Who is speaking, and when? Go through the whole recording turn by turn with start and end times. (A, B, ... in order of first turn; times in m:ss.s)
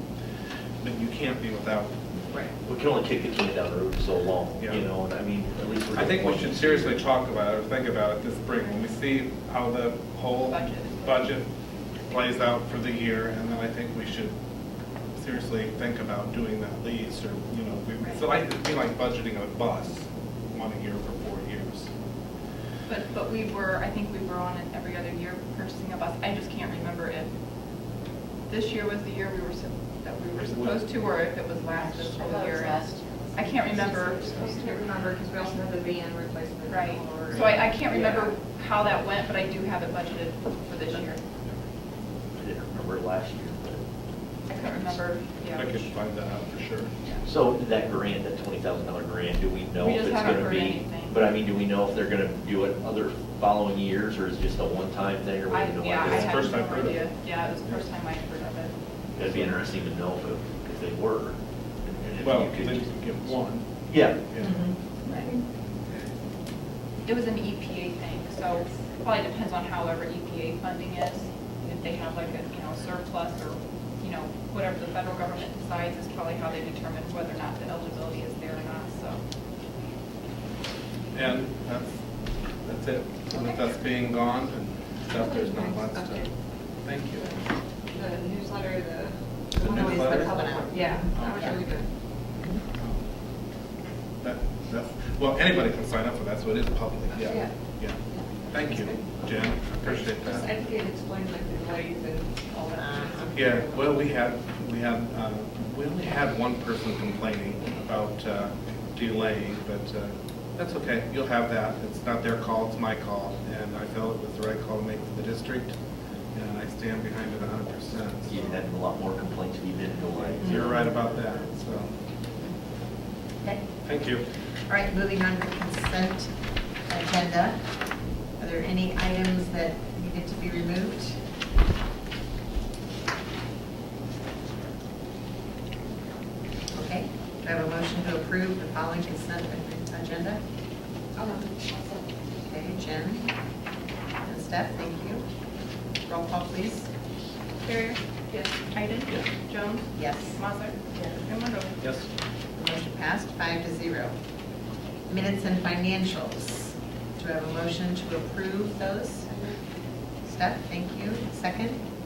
0:00.8-0:02.0 A
0:02.6-0:07.0 B
0:04.6-0:04.8 A
0:05.9-0:11.5 A
0:10.4-0:11.3 C
0:12.1-0:14.4 A
0:15.2-0:21.9 A
0:22.9-0:27.3 C
0:28.5-0:34.7 C
0:30.4-0:30.8 A
0:32.1-0:34.4 D
0:33.8-0:38.4 E
0:36.7-0:41.2 C
0:42.4-0:43.8 B
0:44.5-0:46.0 C
0:45.6-0:46.9 A
0:47.2-0:56.6 B
0:49.8-0:51.4 C
0:55.5-0:58.8 C
0:56.0-0:57.0 A
0:59.2-1:03.4 B
0:59.2-0:59.6 A
1:02.2-1:04.6 A
1:03.9-1:04.2 B
1:04.4-1:05.3 D
1:07.1-1:19.2 C
1:21.1-1:22.0 A
1:22.6-1:27.3 A
1:23.3-1:23.6 C
1:25.1-1:26.3 E
1:27.9-1:31.9 E
1:29.6-1:31.6 D
1:29.6-1:31.6 A
1:34.2-1:40.5 A
1:38.1-1:39.0 E
1:39.9-1:44.1 E
1:42.7-1:43.3 D
1:43.3-1:55.8 A
1:56.4-1:58.6 A
1:58.3-2:00.8 B
2:00.2-2:01.5 D
2:00.4-2:01.9 A
2:03.8-2:04.3 A
2:04.6-2:06.4 D
2:06.9-2:07.7 D
2:08.4-2:11.2 D
2:16.7-2:20.4 D
2:21.2-2:22.1 E
2:22.4-2:23.3 D
2:24.2-2:25.3 D
2:26.0-2:26.9 D
2:27.6-2:31.8 C
2:30.0-2:30.4 D
2:31.8-2:32.1 A
2:32.6-2:34.2 D
2:35.1-2:39.4 D
2:40.2-2:41.8 D